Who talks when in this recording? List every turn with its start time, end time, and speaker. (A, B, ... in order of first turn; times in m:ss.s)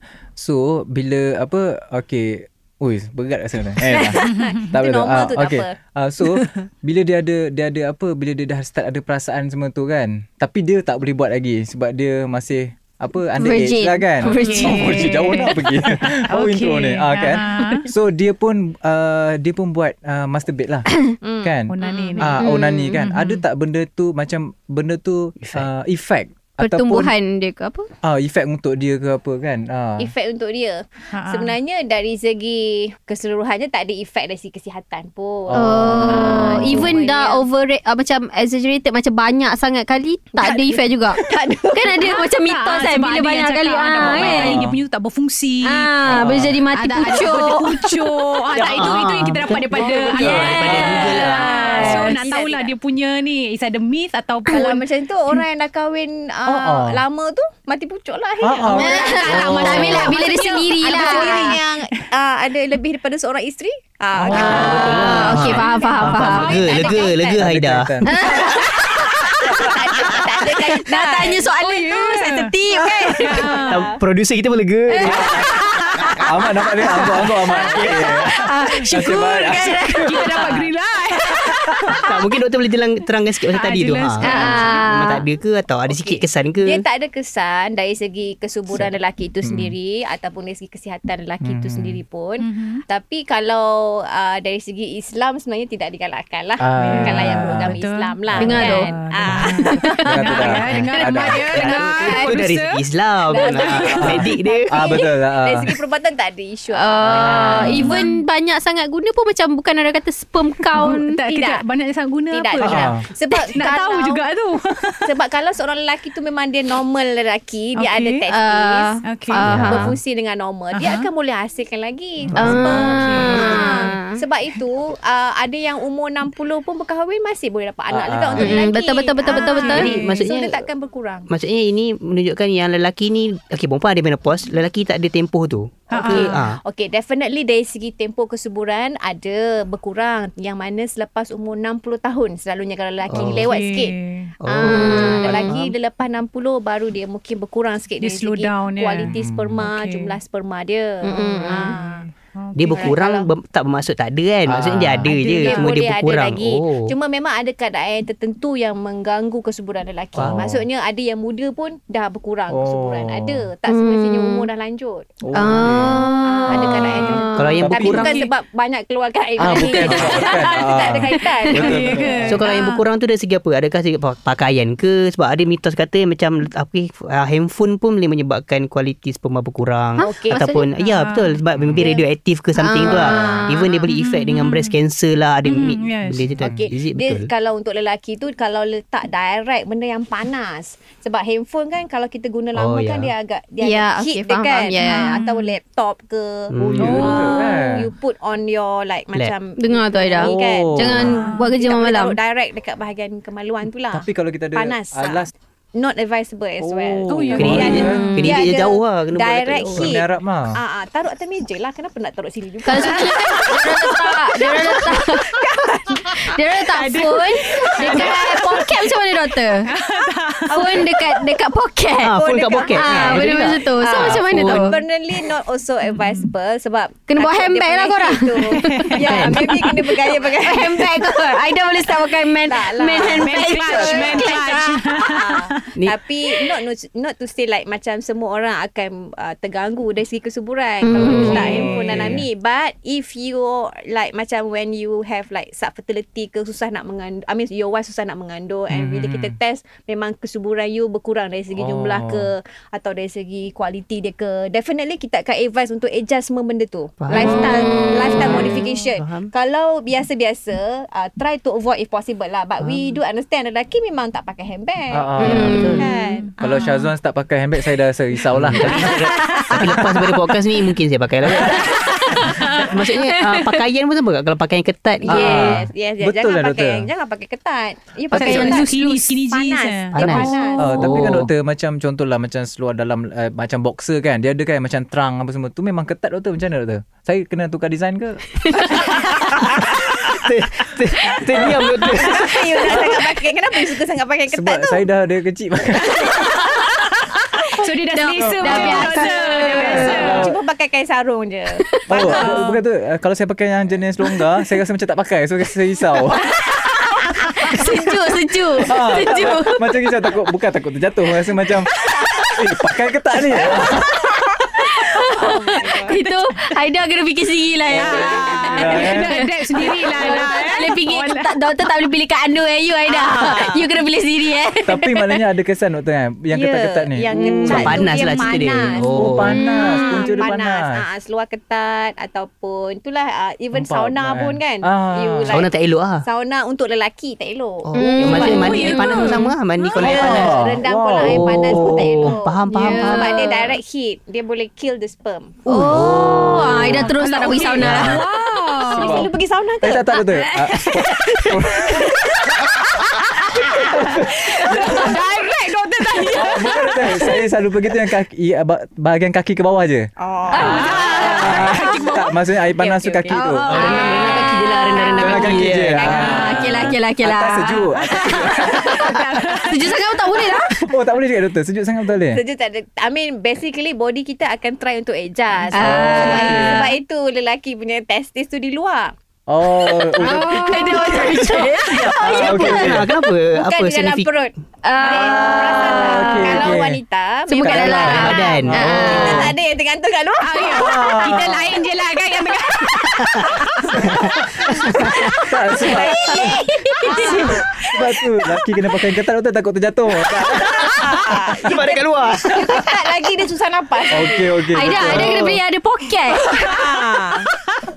0:00.4-0:20.9 A
0:04.2-0:05.7 B
0:04.3-0:04.7 C
0:13.4-0:15.8 D
0:14.2-0:15.5 C
0:16.3-0:17.9 C
0:21.2-0:22.2 B
0:21.4-0:27.1 A
0:21.7-0:22.4 C
0:22.3-0:23.0 D
0:23.0-0:23.4 C
0:25.4-0:25.7 E
0:26.6-0:27.9 D
0:28.0-0:30.1 A
0:30.0-0:37.4 B
0:31.1-0:31.5 C
0:35.5-0:36.9 A
0:35.5-0:41.2 D
0:40.4-0:42.1 B
0:41.7-0:44.6 D
0:42.0-0:45.9 C
0:44.1-0:44.8 A
0:45.6-0:48.2 D
0:46.0-0:46.6 A
0:46.7-0:54.8 C
0:48.5-0:52.0 E
0:49.8-0:52.7 B
0:50.4-0:51.4 D
0:50.6-0:52.1 A
0:54.5-1:07.4 B
0:56.5-0:57.0 A
0:58.4-1:00.1 A
0:58.7-1:01.6 D
0:59.2-1:01.7 C
0:59.3-1:00.1 E
1:04.1-1:05.2 A
1:04.3-1:08.6 E
1:04.4-1:06.9 D
1:06.0-1:06.6 A
1:06.7-1:07.1 C
1:07.2-1:08.1 A
1:08.0-1:13.6 D
1:08.3-1:08.6 C
1:09.4-1:11.4 B
1:10.9-1:12.5 C
1:12.8-1:13.1 A
1:13.2-1:13.9 C
1:13.3-1:13.8 B
1:13.7-1:15.4 E
1:14.9-1:15.6 D
1:15.0-1:15.6 A
1:15.3-1:16.2 C
1:16.0-1:16.2 E
1:16.2-1:20.7 A
1:17.1-1:22.4 C
1:17.2-1:18.1 E
1:18.4-1:20.1 D
1:21.3-1:22.0 A
1:22.0-1:26.8 E
1:23.5-1:24.9 C
1:24.2-1:25.2 D
1:25.9-1:40.0 B
1:29.4-1:29.7 A
1:31.4-1:32.0 A
1:32.4-1:32.8 C
1:36.6-1:38.6 A
1:36.8-1:44.2 C
1:38.4-1:38.9 D
1:39.2-1:42.0 A
1:39.7-1:40.4 D
1:41.4-1:44.9 E
1:43.3-1:48.0 B
1:43.9-1:45.7 A
1:46.7-1:51.2 D
1:47.0-1:48.0 A
1:47.6-1:48.2 C
1:50.8-1:55.1 C
1:51.2-1:51.6 B
1:52.3-1:54.2 B
1:52.6-1:53.0 A
1:55.0-1:59.0 B
1:57.8-1:58.2 C
1:58.3-1:59.9 D
1:59.0-1:59.4 C
1:59.5-1:59.9 A
1:59.5-2:11.3 B
2:00.7-2:01.1 C
2:02.3-2:02.6 E
2:02.3-2:04.2 D
2:02.7-2:04.0 C
2:07.9-2:08.6 A
2:08.4-2:09.9 D
2:09.3-2:10.2 C
2:09.6-2:10.7 E
2:11.3-2:16.6 E
2:15.9-2:16.5 C
2:16.0-2:32.0 B
2:23.1-2:23.5 E
2:23.3-2:24.3 C
2:24.4-2:25.7 E
2:24.6-2:25.4 D
2:28.0-2:30.1 C
2:29.0-2:29.6 A
2:31.0-2:31.8 D
2:31.5-2:32.9 C
2:32.5-2:36.9 E
2:32.7-2:33.3 B
2:34.4-2:35.6 A
2:35.0-2:45.1 B
2:40.2-2:40.5 E
2:40.2-2:40.6 A
2:42.5-2:43.5 A
2:43.6-2:44.5 D
2:45.2-2:48.0 A
2:45.3-2:47.8 D
2:46.1-2:52.2 B
2:47.4-2:48.2 E
2:49.4-2:52.4 A
2:50.1-2:50.6 C
2:51.5-3:07.3 E
2:51.6-2:52.8 C
3:00.0-3:00.7 D
3:00.0-3:00.4 B
3:00.8-3:01.4 C
3:01.5-3:01.8 A
3:02.6-3:03.7 D
3:02.8-3:03.8 B
3:03.8-3:04.8 C
3:05.4-3:06.3 C
3:06.3-3:06.6 A
3:06.4-3:36.4 B
3:12.5-3:13.1 E
3:13.6-3:15.1 D
3:14.8-3:15.5 C
3:16.5-3:17.3 E
3:16.6-3:17.8 A
3:19.6-3:22.2 D
3:20.2-3:21.1 A
3:23.9-3:25.3 A
3:26.6-3:28.1 A
3:27.1-3:28.3 C
3:27.3-3:29.9 E
3:28.0-3:28.4 D
3:29.7-3:30.6 A
3:32.6-3:35.4 D
3:32.7-3:34.9 C
3:36.2-3:39.7 D
3:36.7-3:39.0 C
3:37.0-3:38.4 B
3:39.6-3:41.2 C
3:40.5-3:41.0 B
3:40.5-3:44.8 D
3:42.0-3:44.7 E
3:42.1-3:51.2 B
3:45.8-3:46.3 C
3:47.1-3:49.4 D
3:48.5-3:49.0 C
3:49.0-3:49.5 E
3:50.0-3:54.4 D
3:52.4-4:26.4 B
3:52.9-3:55.7 C
4:00.8-4:01.7 D
4:00.9-4:01.7 E
4:01.0-4:02.2 A
4:08.7-4:09.4 A
4:11.5-4:12.3 A
4:17.0-4:19.3 E
4:17.3-4:18.4 D
4:24.9-4:25.7 A
4:25.2-4:25.9 D
4:25.2-4:25.8 E
4:26.2-4:26.9 C
4:26.4-4:30.1 A
4:28.3-4:35.6 E
4:28.7-4:29.6 C
4:31.3-4:33.6 C
4:35.0-4:41.0 B
4:35.1-4:36.9 A
4:38.1-4:38.7 D
4:38.1-4:40.4 C
4:40.0-4:41.3 E
4:40.6-4:49.0 A
4:48.4-4:48.8 D
4:49.1-4:52.3 E
4:51.3-4:51.6 A
4:51.4-4:54.8 B
4:54.3-4:56.5 A
4:56.0-5:00.3 C
4:57.9-4:59.9 D
4:58.2-5:02.5 B
4:58.2-4:58.8 A
4:59.6-5:00.4 A
5:01.7-5:02.3 D
5:01.9-5:06.4 A
5:02.0-5:02.5 C
5:06.5-5:09.6 D
5:08.6-5:14.1 A
5:14.4-5:25.2 D
5:15.0-5:16.0 B
5:17.7-5:21.3 C
5:17.7-5:18.9 B
5:18.5-5:19.2 A
5:19.8-5:20.4 B
5:22.9-5:23.7 B
5:24.6-5:28.2 A
5:26.3-5:35.5 B
5:27.2-5:27.7 D
5:27.4-5:29.4 E
5:28.9-5:30.8 A
5:29.6-5:30.1 D
5:33.5-5:35.4 A
5:35.3-5:36.0 E
5:36.0-5:39.0 B
5:37.7-5:40.4 E
5:37.7-5:39.2 D
5:38.1-5:40.0 C
5:39.8-5:45.4 B
5:39.8-5:42.2 A
5:41.0-5:43.3 E
5:42.5-5:43.5 D
5:45.4-5:48.0 D
5:45.5-5:46.9 E
5:46.6-5:46.9 A
5:47.0-5:49.1 C
5:47.6-5:48.0 A
5:48.6-5:50.1 B
5:48.7-5:52.5 A
5:50.0-5:57.2 C
5:53.4-5:55.0 A
5:56.1-5:59.9 A
6:00.0-6:01.6 B
6:00.3-6:01.4 D
6:00.3-6:02.2 C
6:00.6-6:03.6 A
6:02.6-6:03.2 B
6:03.1-6:04.8 C
6:03.5-6:06.2 E
6:03.6-6:05.3 D
6:05.0-6:08.9 A
6:05.8-6:06.3 B
6:05.8-6:07.7 D
6:06.0-6:06.7 C
6:07.8-6:09.9 C
6:08.8-6:10.6 D
6:10.6-6:12.2 A
6:12.1-6:18.9 B
6:15.5-6:16.7 D
6:15.5-6:16.7 A
6:19.3-6:22.9 A
6:19.9-6:22.4 D
6:20.0-6:21.1 C
6:20.9-6:24.1 E
6:23.3-6:31.1 B
6:24.6-6:26.6 D
6:25.2-6:26.8 A
6:27.3-6:29.3 D
6:27.4-6:29.3 A
6:27.6-6:28.8 E
6:30.2-6:33.7 C
6:30.5-6:31.5 A
6:32.8-6:33.4 E
6:33.6-6:34.7 B
6:33.7-6:34.6 A
6:34.4-6:35.2 E
6:35.2-6:36.4 A
6:35.6-6:37.3 B
6:35.6-6:36.1 D
6:36.6-6:38.4 C
6:36.7-6:37.3 D
6:37.7-6:40.9 A
6:40.7-6:44.4 B
6:40.7-6:42.7 E
6:43.9-6:45.2 A
6:44.5-6:46.6 D
6:44.7-6:45.4 E
6:46.2-6:46.6 C
6:46.5-6:47.3 B
6:47.3-6:47.6 C